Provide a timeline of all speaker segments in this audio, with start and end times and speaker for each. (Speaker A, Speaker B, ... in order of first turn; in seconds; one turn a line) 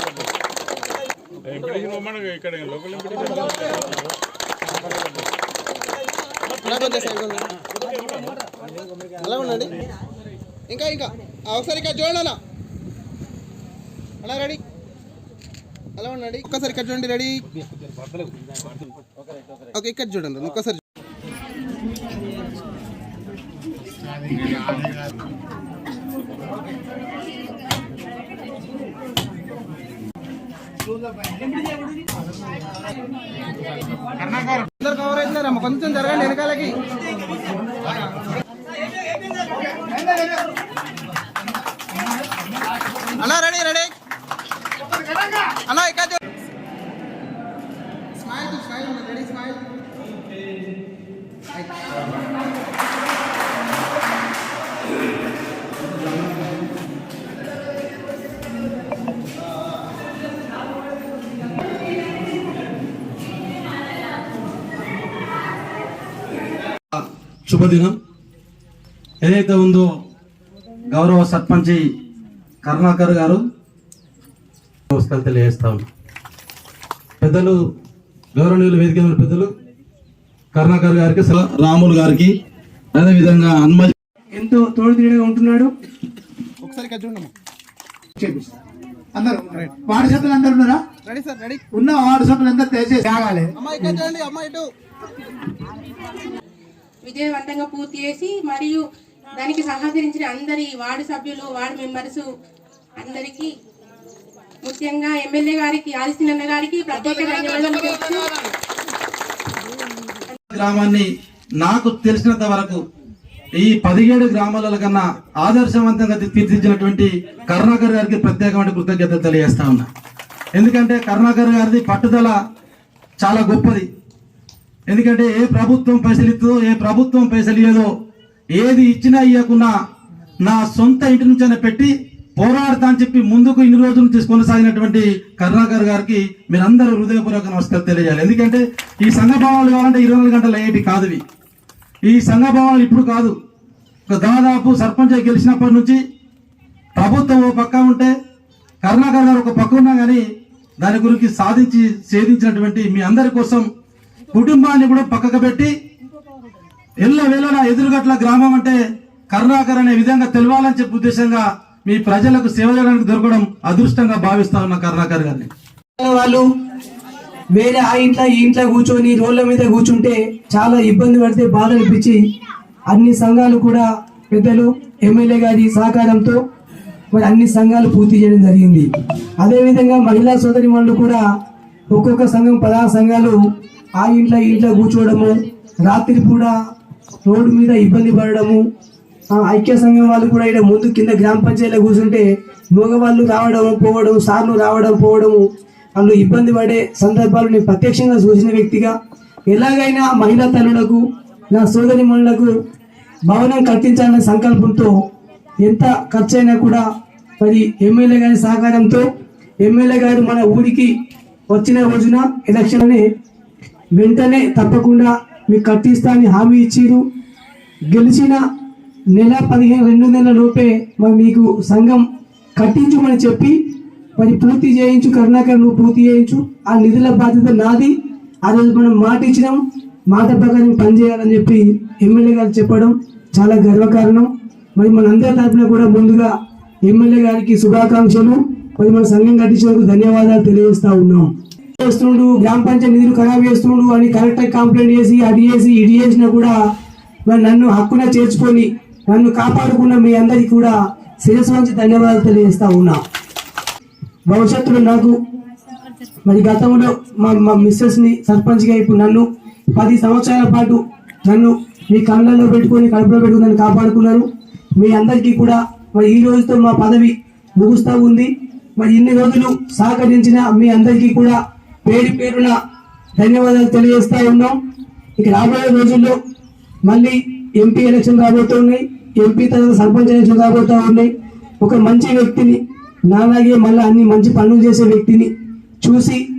Speaker A: 1.5-3.7
Speaker B: 6.6-7.5
Speaker B: 9.2-9.7
Speaker B: 10.7-12.4
Speaker B: 14.2-14.6
Speaker B: 16.0-17.4
Speaker B: 19.7-20.8
Speaker B: 34.8-36.8
Speaker B: 43.2-43.9
Speaker B: 45.5-46.2
Speaker B: 48.2-49.6
Speaker B: 51.5-52.0
Speaker C: 66.9-68.0
Speaker C: 69.2-69.9
Speaker C: 70.9-71.8
Speaker C: 72.6-73.4
Speaker C: 74.9-75.9
Speaker C: 77.2-77.5
Speaker C: 78.4-79.5
Speaker C: 80.5-82.4
Speaker C: 83.0-83.9
Speaker D: 84.3-85.7
Speaker B: 86.6-87.3
Speaker E: 88.2-88.5
Speaker E: 89.2-90.9
Speaker B: 91.0-91.6
Speaker E: 91.8-93.5
Speaker B: 93.6-94.7
Speaker F: 97.0-98.8
Speaker F: 99.4-102.2
Speaker F: 103.0-103.5
Speaker F: 104.7-108.4
Speaker C: 110.5-111.1
Speaker C: 111.6-112.8
Speaker C: 113.6-119.9
Speaker C: 120.6-122.3
Speaker C: 123.2-123.9
Speaker C: 124.9-127.9
Speaker C: 128.5-129.7
Speaker C: 130.4-141.2
Speaker C: 142.1-143.3
Speaker C: 144.1-146.0
Speaker C: 147.0-148.1
Speaker C: 148.8-150.2
Speaker C: 150.8-153.7
Speaker C: 154.3-155.7
Speaker C: 157.0-158.8
Speaker C: 159.3-165.5
Speaker D: 166.0-166.4
Speaker D: 167.5-172.2
Speaker D: 172.9-176.4
Speaker D: 177.1-178.9
Speaker D: 179.4-181.2
Speaker D: 181.9-183.4
Speaker D: 184.0-186.5
Speaker D: 187.2-188.6
Speaker D: 189.3-195.4
Speaker D: 196.0-198.9
Speaker D: 199.5-201.0
Speaker D: 201.5-202.5
Speaker D: 203.3-204.9
Speaker D: 205.6-206.8
Speaker D: 207.4-209.0
Speaker D: 209.6-210.9
Speaker D: 211.5-213.0
Speaker D: 214.0-217.0
Speaker D: 217.9-218.4
Speaker D: 219.1-222.0
Speaker D: 222.6-223.6
Speaker D: 224.2-227.9
Speaker D: 228.4-236.3
Speaker D: 236.8-246.6
Speaker D: 247.3-253.0
Speaker D: 254.3-255.1
Speaker D: 256.3-264.2
Speaker D: 264.8-272.5
Speaker D: 273.2-274.6
Speaker D: 275.2-276.1
Speaker D: 276.9-281.1
Speaker D: 281.6-285.3
Speaker D: 285.8-286.2